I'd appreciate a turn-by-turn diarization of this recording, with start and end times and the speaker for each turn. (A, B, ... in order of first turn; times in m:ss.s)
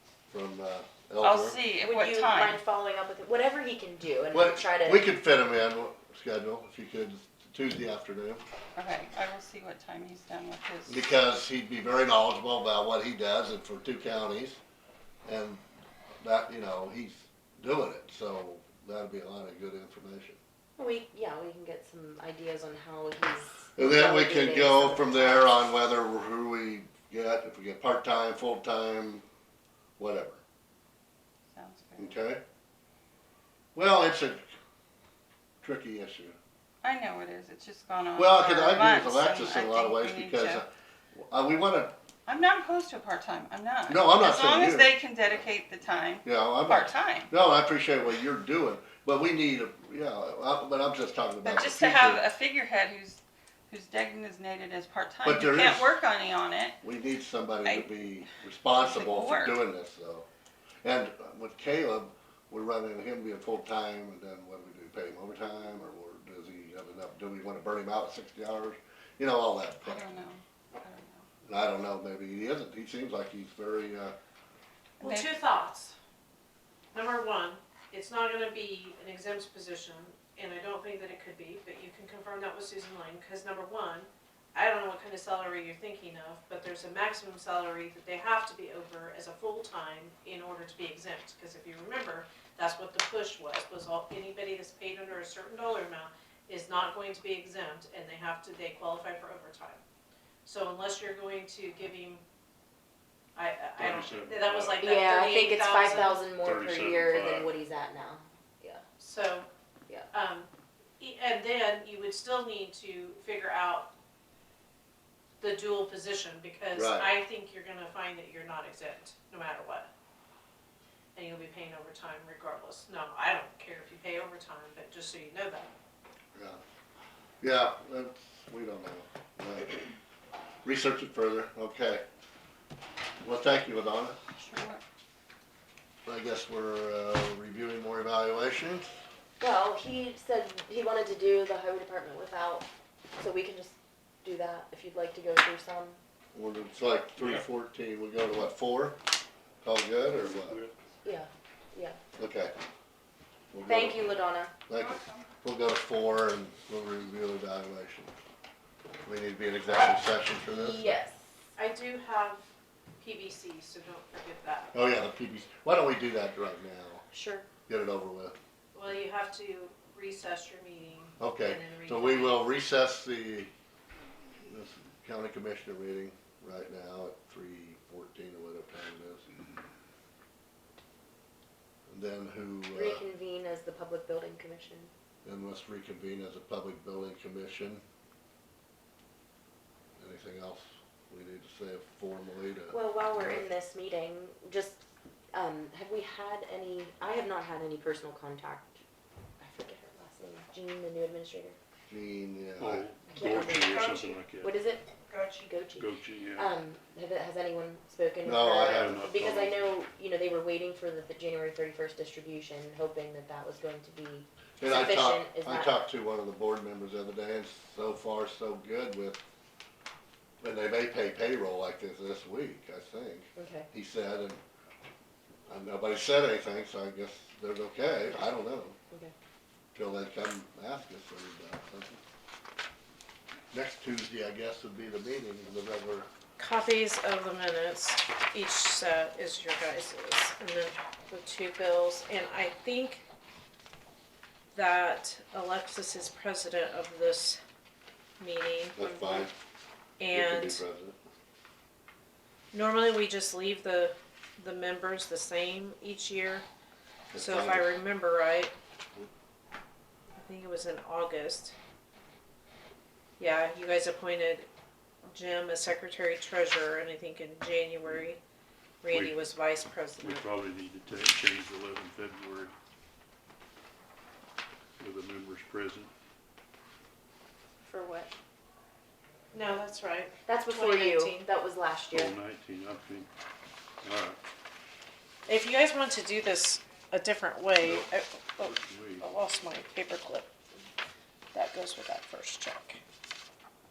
0:00.3-0:01.6 A
0:01.2-0:02.6 B
0:01.8-0:05.1 C
0:04.3-0:08.4 A
0:08.8-0:11.1 B
0:10.9-0:14.6 A
0:15.3-0:15.6 A
0:16.2-0:20.4 A
0:20.8-0:25.5 C
0:23.8-0:29.2 A
0:30.0-0:30.4 A
0:31.5-0:32.2 B
0:32.0-0:32.4 A
0:33.8-0:34.5 A
0:35.6-0:36.4 A
0:36.8-0:40.6 B
0:38.2-0:41.9 A
0:42.3-0:47.3 B
0:43.9-0:45.4 A
0:46.2-0:52.3 A
0:51.4-0:56.8 B
0:55.2-0:55.9 A
0:56.8-1:00.3 A
0:57.6-0:58.1 B
0:58.8-0:59.6 B
1:00.8-1:10.1 A
1:09.8-1:11.3 B
1:11.4-1:14.2 A
1:15.0-1:16.0 D
1:15.0-1:15.3 B
1:16.9-1:39.8 D
1:40.4-1:42.2 D
1:43.4-1:46.3 D
1:43.8-1:44.9 E
1:44.8-1:48.8 C
1:46.4-1:47.5 E
1:49.0-1:49.5 D
1:50.1-1:53.9 D
1:55.4-1:59.9 D
1:56.7-1:57.1 A
2:01.2-2:05.7 D
2:06.4-2:06.6 A
2:07.4-2:09.8 A
2:10.6-2:12.0 A
2:13.2-2:14.2 A
2:14.4-2:14.8 B
2:16.1-2:18.9 A
2:19.4-2:26.0 C
2:26.3-2:29.0 A
2:29.6-2:30.6 A
2:30.1-2:30.8 E
2:31.0-2:32.0 C
2:32.2-2:32.5 A
2:33.5-2:38.1 A
2:33.6-2:34.5 C
2:34.8-2:35.2 B
2:39.0-2:40.9 A
2:40.4-2:41.3 C
2:41.6-2:42.4 D
2:43.0-2:44.7 D
2:44.7-2:47.1 A
2:47.1-2:47.5 C
2:47.7-2:48.4 A
2:48.7-2:52.4 D
2:51.2-2:53.5 A
2:54.4-2:59.3 A
3:01.9-3:03.0 A
3:02.7-3:04.9 C
3:05.2-3:07.8 A
3:10.0-3:13.5 A
3:12.7-3:18.8 C
3:19.4-3:21.6 C
3:21.9-3:22.9 A
3:22.6-3:24.5 E
3:23.1-3:35.8 C
3:23.7-3:24.2 D
3:25.1-3:25.4 D
3:25.8-3:26.5 E
3:28.2-3:29.0 A
3:28.6-3:29.8 E
3:34.6-3:39.2 A
3:40.4-3:44.4 A
3:43.4-3:43.7 C
3:45.5-3:48.8 A
3:49.8-3:52.0 A
3:53.5-3:56.1 A
3:56.4-4:03.0 D
4:04.5-4:07.4 D
4:08.2-4:09.2 D
4:08.8-4:09.3 A
4:10.0-4:10.6 D
4:10.1-4:11.0 A
4:12.5-4:16.5 D
4:17.1-4:17.7 A
4:17.2-4:18.5 D
4:20.2-4:21.6 D
4:23.2-4:24.5 D
4:25.1-4:28.2 D
4:28.8-4:30.3 D
4:28.9-4:29.2 E
4:30.0-4:32.5 E
4:34.8-4:35.9 E
4:37.7-4:38.1 D
4:39.3-4:41.2 D
4:40.3-4:42.1 C
4:41.9-4:43.1 E
4:43.8-4:44.2 E
4:45.3-4:50.3 D
4:47.6-4:49.1 E
4:51.3-4:52.8 D